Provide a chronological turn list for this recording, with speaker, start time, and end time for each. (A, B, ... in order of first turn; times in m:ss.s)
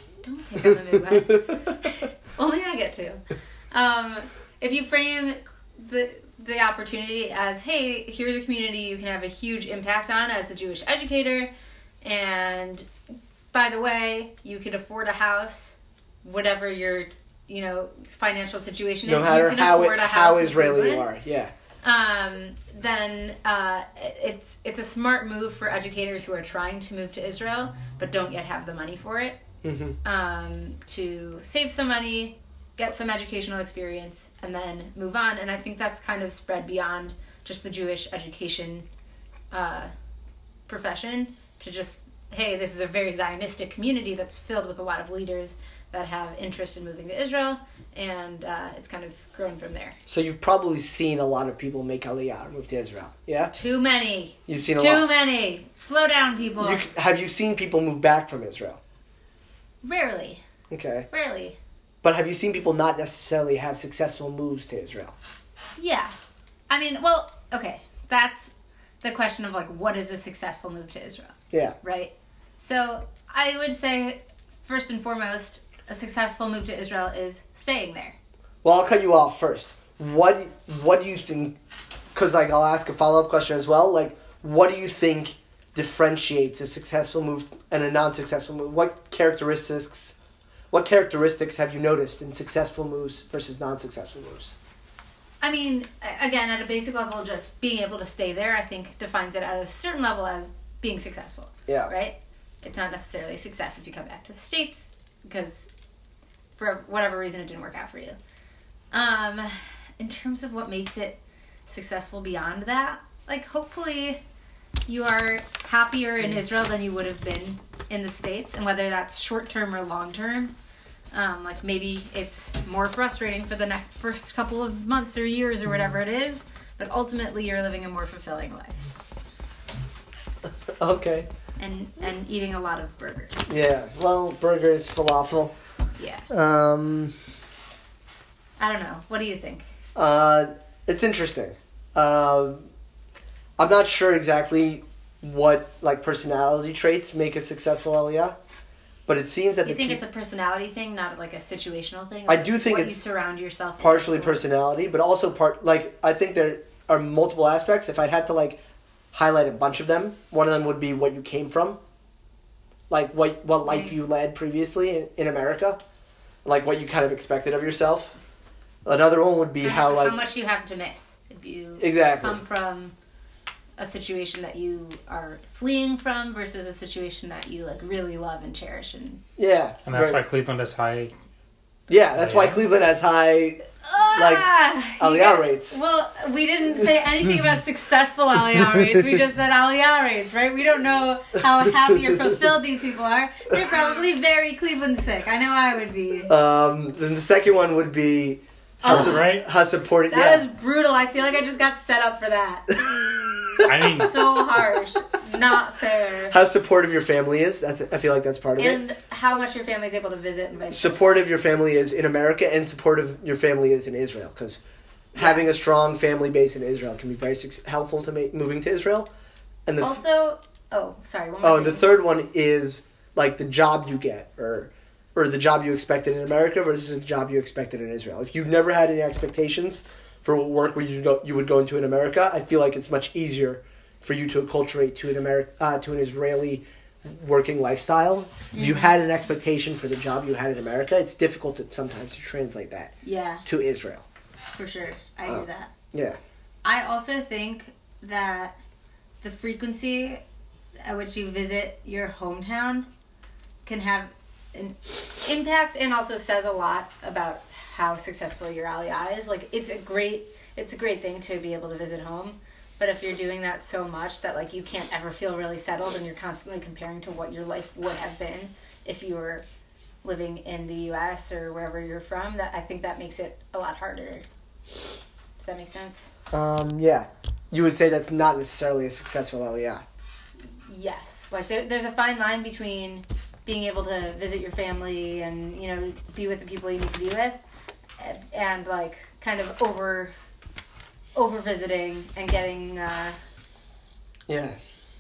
0:00.2-0:03.2 A
0:01.1-0:01.4 B
0:03.7-0:11.5 A
0:12.0-0:12.9 A
0:13.5-0:21.1 A
0:19.0-0:21.5 B
0:21.8-0:29.4 A
0:29.6-0:30.0 B
0:30.0-0:38.9 A
0:39.5-0:39.9 A
0:40.7-0:50.0 A
0:50.1-0:53.5 B
0:53.5-0:56.8 A
0:54.5-0:55.1 B
0:56.6-0:58.8 B
0:59.8-1:00.4 A
1:00.7-1:01.1 B
1:01.1-1:01.6 A
1:02.0-1:05.2 B
1:05.8-1:06.1 A
1:06.7-1:08.5 A
1:09.0-1:18.2 A
1:18.6-1:21.6 B
1:22.1-1:30.2 B
1:30.7-1:34.6 B
1:35.4-1:45.7 A
1:46.6-1:48.2 A
1:48.9-1:54.2 A
1:54.9-2:00.5 A
2:01.1-2:08.8 A
2:10.8-2:11.3 B
2:11.6-2:13.5 A
2:13.5-2:15.6 B
2:16.0-2:16.3 A
2:16.3-2:17.1 B
2:18.6-2:19.6 A
2:20.0-2:22.7 B
2:23.6-2:28.4 B
2:29.1-2:30.0 B
2:29.6-2:34.4 A
2:32.3-2:33.0 B
2:33.8-2:38.6 B
2:39.1-2:41.8 B
2:42.9-2:45.8 B
2:43.6-2:44.0 A
2:46.4-2:48.2 B
2:48.8-2:50.2 B
2:49.6-2:52.9 A
2:51.8-2:52.4 B
2:53.8-2:59.2 A
2:59.4-3:00.2 B
2:59.9-3:01.1 C
3:01.9-3:03.6 B
3:02.2-3:02.6 C
3:03.8-3:16.3 A
3:04.2-3:05.8 B
3:16.3-3:20.4 B
3:18.8-3:19.2 A
3:18.9-3:19.4 C
3:20.1-3:22.8 A
3:22.8-3:24.1 B
3:23.6-3:26.4 A
3:23.6-3:24.2 C
3:26.3-3:28.8 B
3:28.6-3:31.3 A
3:30.7-3:34.6 B
3:35.1-3:39.1 B
3:35.2-3:35.5 A
3:39.7-3:40.0 B
3:39.8-3:41.9 A
3:41.4-4:02.9 B
3:58.5-3:59.0 A
4:03.0-4:03.4 A
4:03.4-4:04.0 B
4:04.5-4:05.7 A
4:05.3-4:06.2 B
4:06.6-4:08.6 A
4:09.2-4:10.2 A
4:10.8-4:12.9 A
4:13.6-4:29.4 A
4:30.0-4:34.2 A
4:35.4-4:36.1 A
4:36.3-4:39.8 B
4:40.6-4:47.4 A
4:48.0-4:50.1 A
4:51.2-4:53.2 A
4:54.3-4:54.6 B